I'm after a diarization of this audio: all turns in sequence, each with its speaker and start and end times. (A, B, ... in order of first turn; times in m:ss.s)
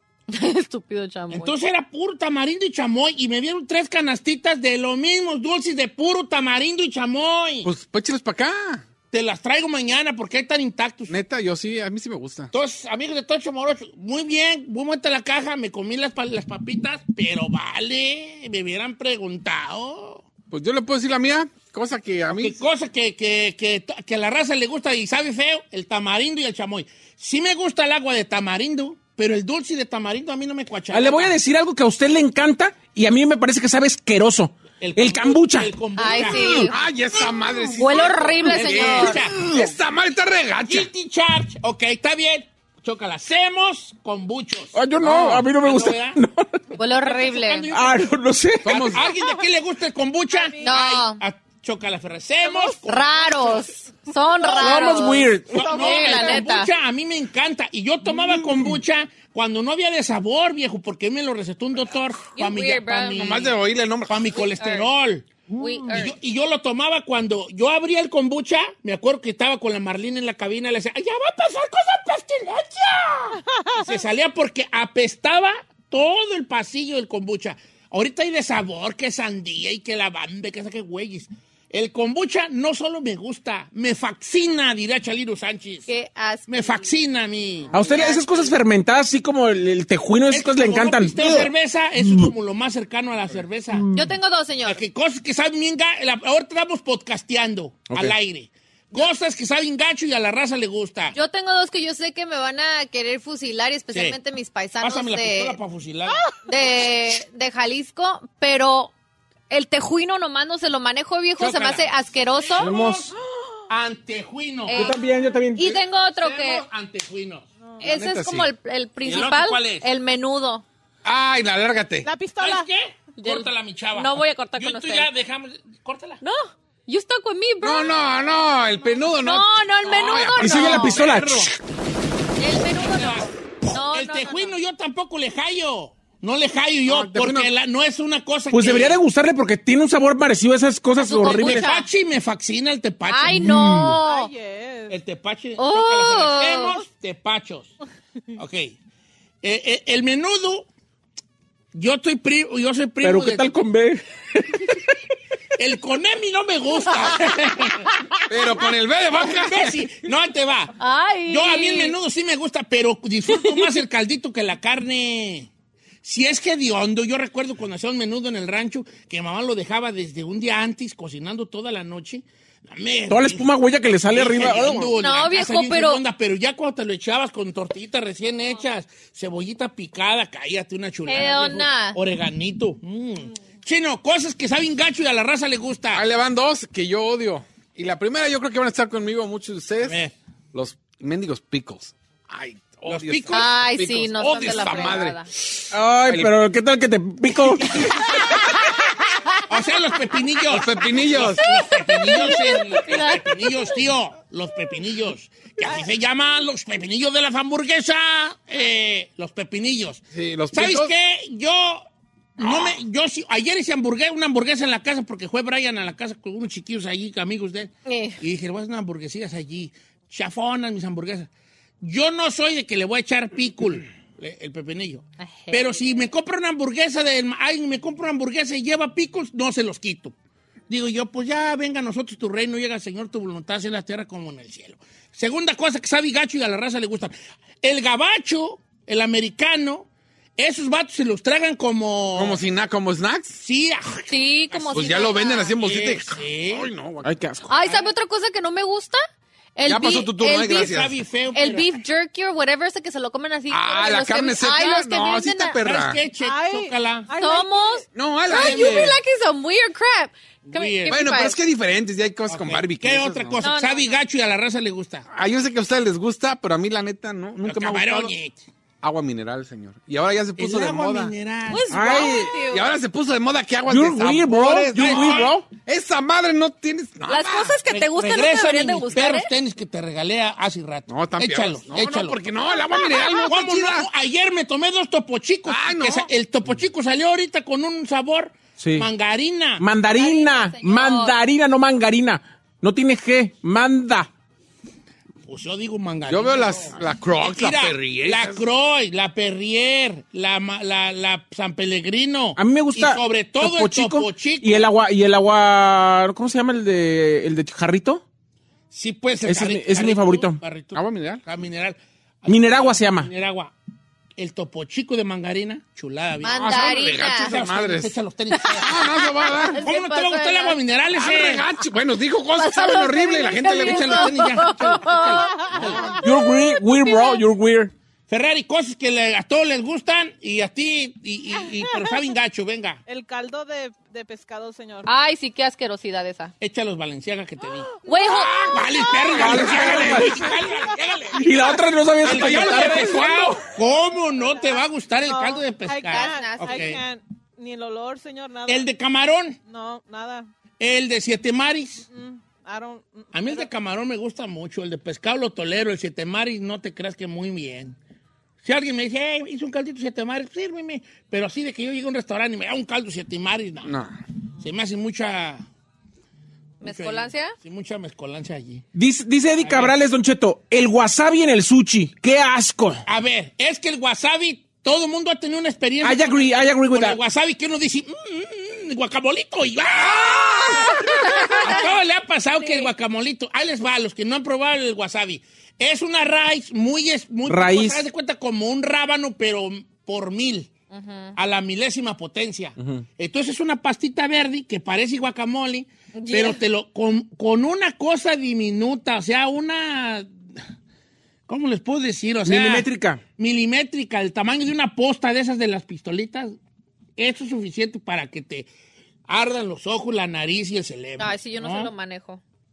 0:00.3-0:01.5 A
0:01.3-0:07.7 B
0:07.6-0:08.8 C
0:09.1-0:11.2 B
0:11.1-0:12.5 C
0:12.5-0:20.2 B
0:20.5-0:22.6 C
0:22.3-0:31.4 B
0:30.9-0:36.7 D
0:34.8-0:36.7 B
0:36.0-0:36.7 A
0:36.7-0:40.9 C
0:37.8-0:39.3 A
0:38.4-0:39.7 B
0:40.6-0:46.2 B
0:44.7-0:46.5 D
0:45.0-0:45.4 C
0:46.8-0:47.7 A
0:46.8-0:48.1 B
0:47.7-0:48.8 D
0:48.6-0:49.1 C
0:48.7-0:53.6 B
0:50.3-0:50.8 E
0:50.6-0:51.2 A
0:52.8-0:56.7 A
0:54.6-0:55.8 D
0:55.5-1:03.6 B
0:55.9-0:56.2 E
1:02.3-1:03.3 A
1:03.1-1:04.4 C
1:04.1-1:05.3 B
1:04.4-1:04.9 A
1:05.6-1:06.2 A
1:05.9-1:25.9 B
1:13.5-1:13.9 E
1:25.9-1:27.0 A
1:26.5-1:28.5 B
1:27.7-1:32.3 D
1:27.8-1:28.5 A
1:30.3-1:33.9 B
1:33.8-1:34.0 D
1:33.9-1:34.8 A
1:34.6-1:41.2 B
1:37.9-1:38.2 D
1:41.1-1:45.6 A
1:44.8-1:46.3 B
1:46.4-1:48.9 A
1:49.5-1:52.7 A
1:51.4-1:51.8 B
1:52.4-1:53.1 B
1:52.6-1:53.1 D
1:53.7-1:54.9 B
1:54.7-1:55.0 A
1:54.7-1:55.6 D
1:55.5-1:56.6 A
1:56.2-1:57.5 B
1:57.8-1:58.5 C
1:57.8-2:00.6 A
1:59.0-1:59.9 B
2:01.0-2:02.1 C
2:02.0-2:02.7 E
2:02.4-2:06.2 B
2:03.2-2:05.1 A
2:06.2-2:08.0 A
2:07.6-2:10.9 C
2:09.2-2:11.0 A
2:10.4-2:11.5 D
2:10.6-2:11.5 B
2:12.4-2:14.5 A
2:12.6-2:19.0 B
2:16.9-2:17.5 C
2:18.5-2:21.6 D
2:21.0-2:21.9 A
2:21.3-2:24.0 B
2:23.1-2:24.3 A
2:24.0-2:25.0 E
2:24.9-2:27.7 B
2:25.6-2:26.7 A
2:28.4-2:28.7 B
2:29.4-2:30.7 B
2:31.7-2:33.5 B
2:33.0-2:34.8 D
2:35.6-2:37.9 B
2:38.3-2:39.7 C
2:39.2-2:40.7 B
2:40.8-2:42.0 A
2:41.3-2:45.5 B
2:43.4-2:43.8 A
2:46.0-2:53.5 B
2:53.1-2:55.0 D
2:54.1-3:06.0 B
2:55.0-2:56.0 A
3:01.0-3:02.0 A
3:05.9-3:10.0 C
3:09.8-3:10.1 B
3:10.5-3:16.3 C
3:12.8-3:13.5 B
3:13.3-3:15.3 A
3:14.6-3:14.9 B
3:15.7-3:17.9 D
3:17.5-3:18.1 B
3:19.5-3:31.9 B
3:20.5-3:21.5 C
3:21.8-3:23.7 A
3:30.1-3:30.9 C
3:32.4-3:41.3 B
3:32.4-3:32.8 C
3:37.9-3:38.2 A
3:41.8-3:50.1 B
3:45.2-3:45.8 A
3:50.7-4:02.4 B
4:02.1-4:03.4 C
4:03.4-4:06.7 B
4:04.1-4:05.5 A
4:04.7-4:07.1 C
4:07.0-4:07.5 D
4:07.5-4:09.0 A
4:09.6-4:10.7 A
4:09.6-4:11.0 C
4:10.2-4:11.7 B
4:11.3-4:15.6 A
4:13.5-4:16.0 C
4:15.6-4:17.1 B
4:16.2-4:17.8 E
4:17.2-4:21.4 A
4:17.9-4:19.0 C
4:18.3-4:18.9 B
4:20.5-4:21.3 B
4:20.9-4:23.5 C
4:22.3-4:25.0 B
4:23.4-4:24.0 A
4:25.1-4:28.1 C
4:27.4-4:28.4 B
4:28.8-4:31.1 C
4:30.4-4:32.1 B
4:31.5-4:32.7 A
4:31.7-4:32.3 D
4:31.9-4:37.6 C
4:33.7-4:35.4 D
4:34.7-4:35.3 B
4:37.1-4:39.3 A
4:37.7-4:42.2 B
4:40.9-4:43.9 C
4:42.7-4:43.3 A
4:43.2-4:49.6 B
4:45.4-4:46.1 C
4:48.6-4:48.9 D
4:49.6-4:54.1 D
4:49.9-4:51.2 A
4:55.2-5:04.7 B
4:56.1-4:58.4 C
5:02.4-5:08.0 D
5:08.7-5:13.5 B
5:09.2-5:10.4 D
5:10.7-5:11.2 C
5:12.3-5:13.1 D
5:14.2-5:18.8 B
5:16.2-5:17.3 A
5:16.2-5:18.0 C
5:18.3-5:20.6 A
5:18.5-5:19.7 C
5:19.5-5:21.4 B
5:20.9-5:24.1 C
5:22.4-5:25.4 A
5:23.4-5:25.9 B
5:25.1-5:26.0 E
5:25.5-5:26.0 C
5:26.0-5:27.7 D
5:26.1-5:27.2 A
5:28.1-5:32.8 B
5:32.9-5:34.9 E
5:34.8-5:36.3 A
5:36.4-5:41.4 B
5:37.8-5:38.6 A
5:38.7-5:39.1 E
5:39.2-5:40.2 D
5:39.2-5:40.2 C
5:41.1-5:43.4 D
5:42.0-5:46.8 B
5:42.2-5:42.9 C
5:44.3-5:48.7 E
5:45.9-5:46.7 A
5:48.5-5:49.4 B
5:49.4-5:50.3 E
5:50.6-5:51.8 B
5:51.9-5:53.5 E
5:53.1-5:57.8 B
5:58.4-6:03.7 B
6:03.6-6:04.0 C
6:04.4-6:05.4 B
6:06.6-6:07.3 A
6:06.6-6:08.6 B
6:08.7-6:12.8 D
6:09.4-6:09.8 B
6:12.8-6:30.5 B
6:15.8-6:17.0 D
6:19.8-6:20.9 C
6:20.8-6:21.7 A
6:22.4-6:22.7 A
6:27.3-6:27.8 D
6:30.7-6:31.1 A
6:31.2-6:40.1 B
6:32.6-6:32.8 D
6:35.9-6:36.4 A
6:41.3-6:42.7 B
6:42.2-6:43.0 D
6:43.2-6:46.4 B
6:47.0-6:48.5 B
6:49.1-6:51.7 B
6:51.0-6:52.2 A